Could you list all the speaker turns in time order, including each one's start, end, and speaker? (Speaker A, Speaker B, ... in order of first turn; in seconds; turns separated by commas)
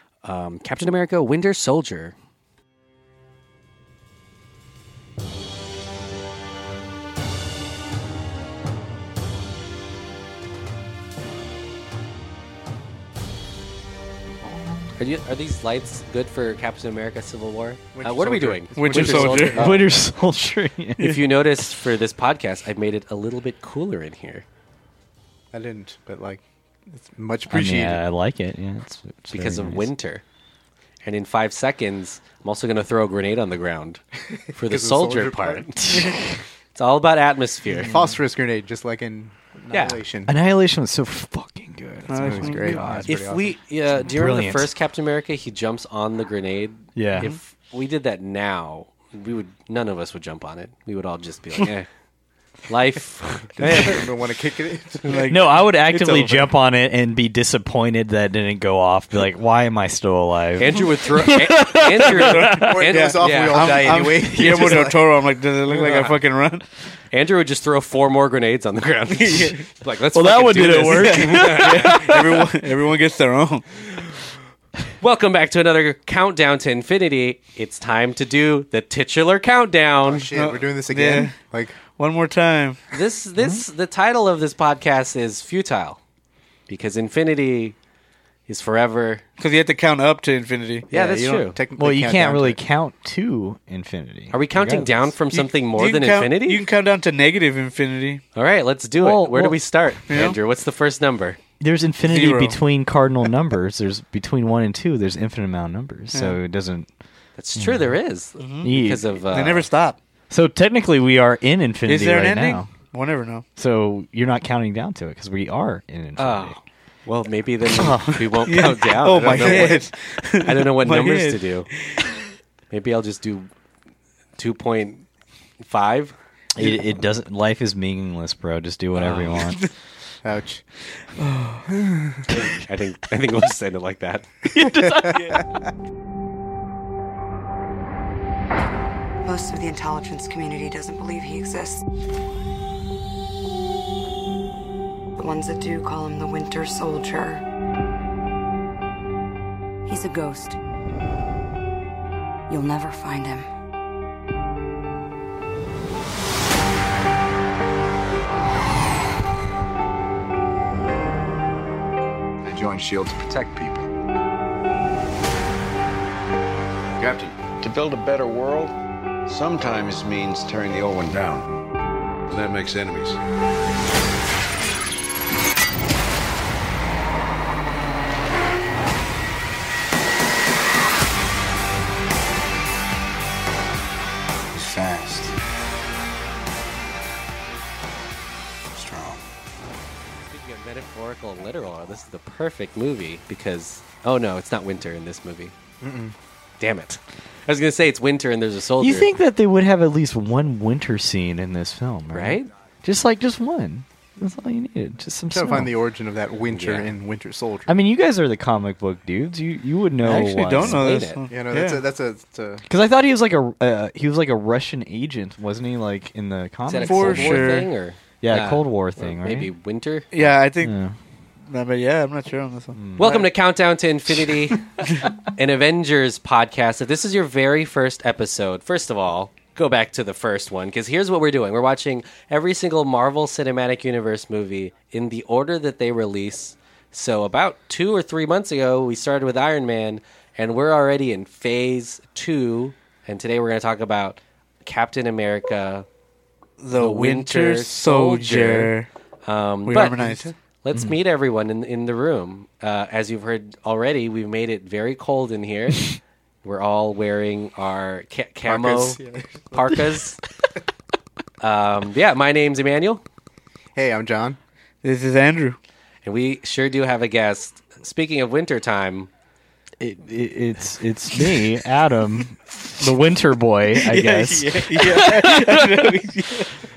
Speaker A: 0.2-2.1, Speaker A: 15.0-20.0, Speaker B: 17.9-19.5, Speaker C: 18.8-19.7, Speaker D: 19.0-21.1, Speaker A: 21.0-24.4, Speaker B: 25.5-28.0, Speaker D: 27.5-29.9, Speaker A: 29.3-30.2, Speaker A: 31.0-36.2, Speaker B: 34.7-35.7, Speaker D: 35.8-36.4, Speaker A: 36.7-38.0, Speaker C: 37.7-38.1, Speaker B: 37.8-40.3, Speaker A: 39.7-40.0, Speaker D: 40.3-43.1, Speaker C: 42.1-42.7, Speaker B: 42.2-43.5, Speaker A: 42.7-51.9, Speaker D: 44.0-44.7, Speaker D: 47.0-47.3, Speaker A: 52.7-54.1, Speaker B: 53.6-55.3, Speaker C: 55.0-56.5, Speaker D: 55.3-62.7, Speaker A: 60.6-64.8, Speaker C: 62.0-66.6, Speaker B: 62.6-65.0, Speaker A: 65.7-66.2, Speaker A: 67.1-72.5, Speaker C: 69.1-69.6, Speaker D: 70.1-72.2, Speaker C: 70.8-73.7, Speaker A: 75.0-80.3, Speaker B: 80.0-81.7, Speaker C: 80.3-81.3, Speaker C: 81.9-82.8, Speaker A: 82.9-86.0, Speaker A: 86.7-87.8, Speaker A: 88.5-89.2, Speaker C: 89.4-90.9, Speaker B: 90.9-92.6, Speaker A: 90.9-91.6, Speaker D: 91.8-95.1, Speaker A: 94.3-96.6, Speaker C: 95.3-98.2, Speaker A: 98.3-101.4, Speaker D: 99.0-99.6, Speaker C: 100.1-100.4, Speaker D: 101.6-106.9, Speaker C: 102.0-102.6, Speaker A: 107.4-109.7, Speaker D: 107.5-107.9, Speaker C: 108.4-108.7, Speaker D: 108.6-109.1, Speaker C: 109.3-110.0, Speaker D: 110.3-112.7, Speaker C: 111.9-113.4, Speaker D: 113.6-116.6, Speaker A: 116.2-121.7, Speaker D: 117.7-118.1, Speaker C: 117.8-122.2, Speaker A: 122.7-123.5, Speaker A: 124.4-125.1, Speaker A: 125.6-126.1, Speaker D: 126.5-129.6, Speaker A: 128.9-129.4, Speaker B: 130.2-130.6, Speaker C: 131.2-131.7, Speaker B: 131.7-132.3, Speaker A: 132.3-134.7, Speaker B: 134.6-135.4, Speaker C: 134.8-135.4, Speaker E: 139.2-141.8, Speaker E: 145.2-147.4, Speaker E: 149.8-150.6, Speaker E: 152.5-153.5, Speaker F: 162.4-163.9, Speaker F: 167.0-168.7, Speaker F: 169.2-171.5, Speaker F: 172.3-173.2, Speaker F: 184.5-185.4, Speaker F: 188.7-189.2, Speaker A: 190.3-195.5, Speaker B: 195.8-196.1, Speaker A: 196.6-199.1, Speaker D: 198.8-205.7, Speaker A: 202.1-202.5, Speaker B: 205.3-207.7, Speaker A: 206.5-206.9, Speaker D: 207.7-210.9, Speaker C: 210.0-211.8, Speaker A: 210.6-211.2, Speaker B: 211.3-212.6, Speaker D: 212.7-217.6, Speaker A: 216.7-220.3, Speaker C: 216.8-217.7, Speaker D: 218.2-219.5, Speaker C: 220.1-220.7, Speaker D: 220.6-220.9, Speaker C: 221.5-222.8, Speaker D: 222.7-223.2, Speaker A: 223.0-245.8, Speaker C: 246.6-248.9, Speaker A: 246.8-248.7, Speaker A: 249.2-250.1, Speaker C: 249.7-250.3, Speaker A: 250.6-259.0, Speaker D: 250.7-251.0, Speaker B: 258.4-259.8, Speaker A: 259.5-260.2, Speaker A: 261.4-263.0, Speaker B: 263.7-264.4, Speaker C: 264.8-265.6, Speaker A: 266.0-269.1, Speaker D: 269.8-275.9, Speaker C: 273.7-276.5